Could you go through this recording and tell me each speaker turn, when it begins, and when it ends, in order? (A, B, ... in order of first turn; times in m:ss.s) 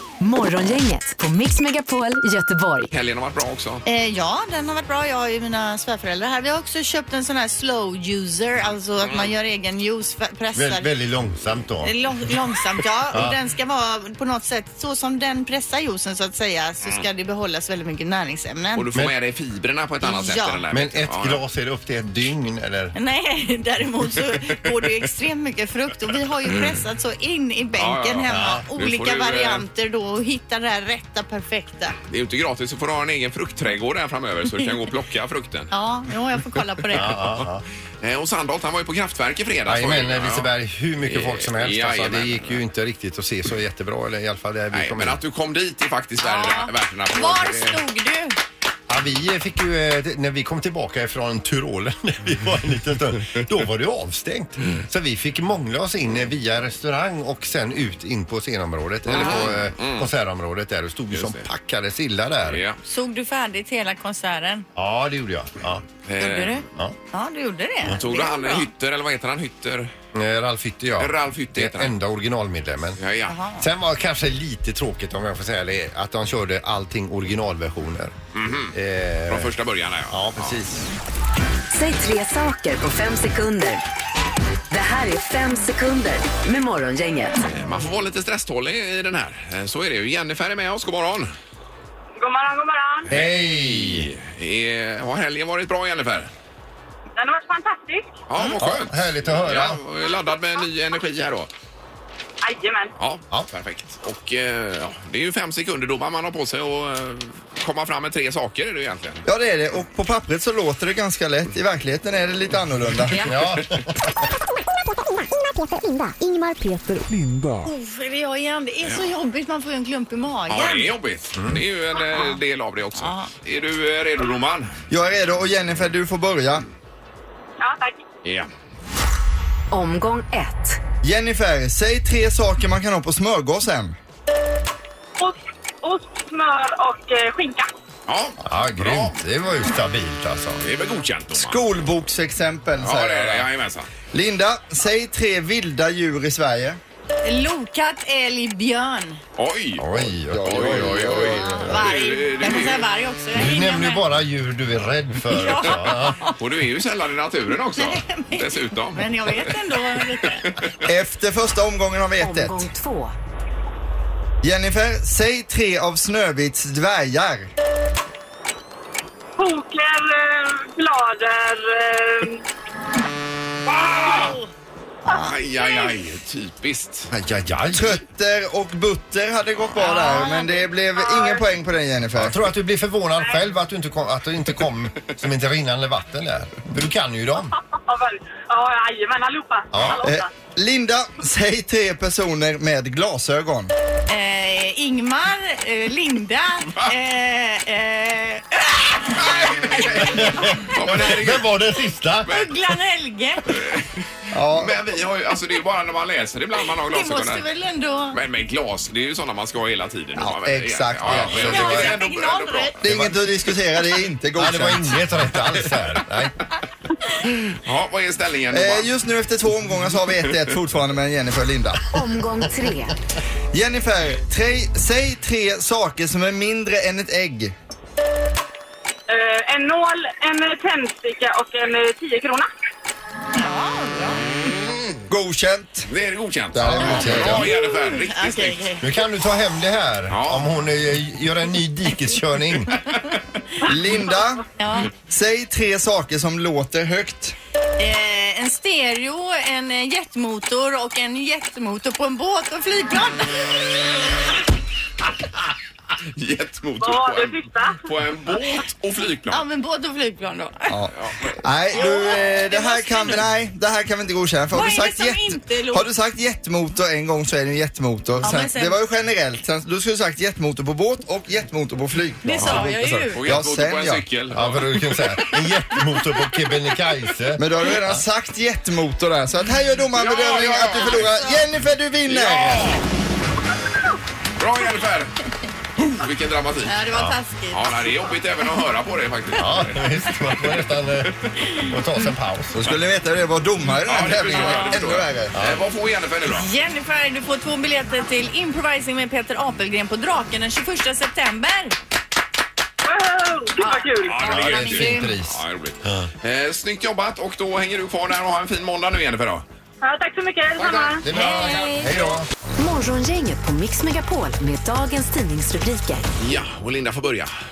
0:00.2-0:02.9 A
0:02.9-0:03.8 B
0:03.8-0:10.9 C
0:10.5-0:11.9 D
0:11.8-0:18.8 C
0:18.7-0:21.4 B
0:20.0-0:20.6 C
0:20.7-0:22.9 D
0:22.9-0:32.0 C
0:27.8-0:29.6 B
0:28.3-0:28.7 D
0:32.1-0:35.7 B
0:35.7-0:37.4 C
0:36.9-0:37.6 D
0:38.0-0:40.5 B
0:39.6-0:45.2 D
0:41.0-0:42.6 B
0:44.7-0:47.8 B
0:46.2-0:48.4 C
0:48.9-1:02.6 D
0:59.0-1:00.1 B
1:01.1-1:01.4 B
1:02.5-1:02.8 B
1:02.8-1:04.6 C
1:04.7-1:05.8 D
1:06.0-1:06.6 B
1:06.2-1:08.7 C
1:07.9-1:09.9 B
1:10.1-1:13.0 D
1:11.0-1:11.9 B
1:13.0-1:13.4 B
1:13.3-1:13.7 C
1:13.6-1:18.1 D
1:18.3-1:20.6 B
1:18.7-1:19.5 D
1:20.1-1:20.8 D
1:21.7-1:23.8 A
1:24.7-1:27.3 A
1:27.4-1:31.3 B
1:32.2-1:33.1 E
1:33.1-1:34.1 D
1:33.1-1:36.3 B
1:37.2-1:38.1 E
1:38.3-1:41.5 B
1:38.4-1:39.8 D
1:42.4-1:42.9 E
1:43.0-1:49.2 B
1:49.2-1:53.2 F
1:53.2-1:54.1 D
1:55.9-1:56.9 A
1:57.6-2:00.9 C
2:00.5-2:04.8 B
2:01.4-2:01.6 D
2:03.0-2:03.3 C
2:04.9-2:06.6 F
2:07.6-2:08.0 E
2:08.2-2:08.5 B
2:09.7-2:10.8 A
2:11.0-2:14.0 F
2:15.2-2:17.7 E
2:18.1-2:19.2 B
2:18.4-2:20.6 D
2:20.6-2:21.6 B
2:21.3-2:23.4 F
2:22.8-2:23.9 B
2:24.1-2:26.8 F
2:27.2-2:29.2 C
2:29.4-2:32.8 B
2:29.8-2:31.7 D
2:30.3-2:31.7 F
2:31.4-2:34.0 C
2:33.3-2:36.2 D
2:35.3-2:36.3 C
2:36.3-2:39.6 B
2:37.8-2:40.5 C
2:40.2-2:40.8 B
2:40.8-2:42.6 F
2:42.2-2:43.1 A
2:44.4-2:47.5 F
2:49.4-2:52.4 E
2:53.7-2:54.4 B
2:53.8-2:54.3 E
2:54.0-2:54.4 C
2:55.1-2:57.1 B
2:57.1-2:58.0 D
2:57.7-3:02.4 F
2:59.8-3:00.6 C
3:01.0-3:01.4 E
3:02.1-3:07.6 D
3:07.7-3:10.3 E
3:09.7-3:10.0 D
3:09.7-3:10.0 B
3:10.0-3:13.7 F
3:14.1-3:20.5 C
3:19.1-3:21.5 B
3:20.0-3:22.5 D
3:22.2-3:23.6 C
3:23.5-3:24.0 B
3:24.3-3:24.8 F
3:24.5-3:27.4 B
3:26.9-3:28.2 C
3:28.1-3:32.9 B
3:30.4-3:31.4 F
3:31.0-3:32.0 D
3:31.4-3:32.8 C
3:32.8-3:34.9 F
3:34.4-3:36.3 D
3:37.3-3:38.9 B
3:38.5-3:42.0 F
3:41.9-3:42.9 A
3:43.5-3:47.5 F
3:49.1-3:52.5 E
3:53.4-3:54.3 C
3:55.1-3:55.9 F
3:55.9-3:58.7 B
3:56.5-3:57.5 F
3:56.6-3:57.5 D
3:57.5-3:58.8 C
3:58.8-4:02.8 D
4:00.1-4:00.4 B
4:03.6-4:04.4 F
4:04.6-4:04.9 C
4:05.1-4:07.3 F
4:07.8-4:14.0 C
4:16.2-4:19.4 B
4:16.8-4:17.8 E
4:19.3-4:20.8 C
4:20.7-4:34.0 F
4:20.9-4:21.4 B
4:21.7-4:23.2 C
4:24.5-4:25.8 C
4:28.2-4:28.8 C
4:32.2-4:33.2 C
4:33.1-4:35.1 B
4:34.3-4:38.0 D
4:37.4-4:42.7 F
4:39.9-4:41.1 B
4:40.7-4:41.4 C
4:42.1-4:42.8 B
4:44.4-4:45.2 B
4:45.8-4:46.8 B
4:46.7-4:48.0 C
4:46.9-4:47.2 D
4:47.5-4:50.4 B
4:49.3-4:52.7 D
4:52.6-4:55.3 F
4:53.8-4:56.5 B
4:54.3-4:54.8 C
4:55.3-4:55.6 D
4:56.2-5:01.8 C
5:02.8-5:04.2 E
5:03.6-5:05.1 C
5:04.0-5:09.4 B
5:04.2-5:06.1 D
5:09.8-5:11.1 E
5:10.6-5:11.6 B
5:11.0-5:12.3 D
5:12.6-5:16.0 A
5:16.2-5:17.3 B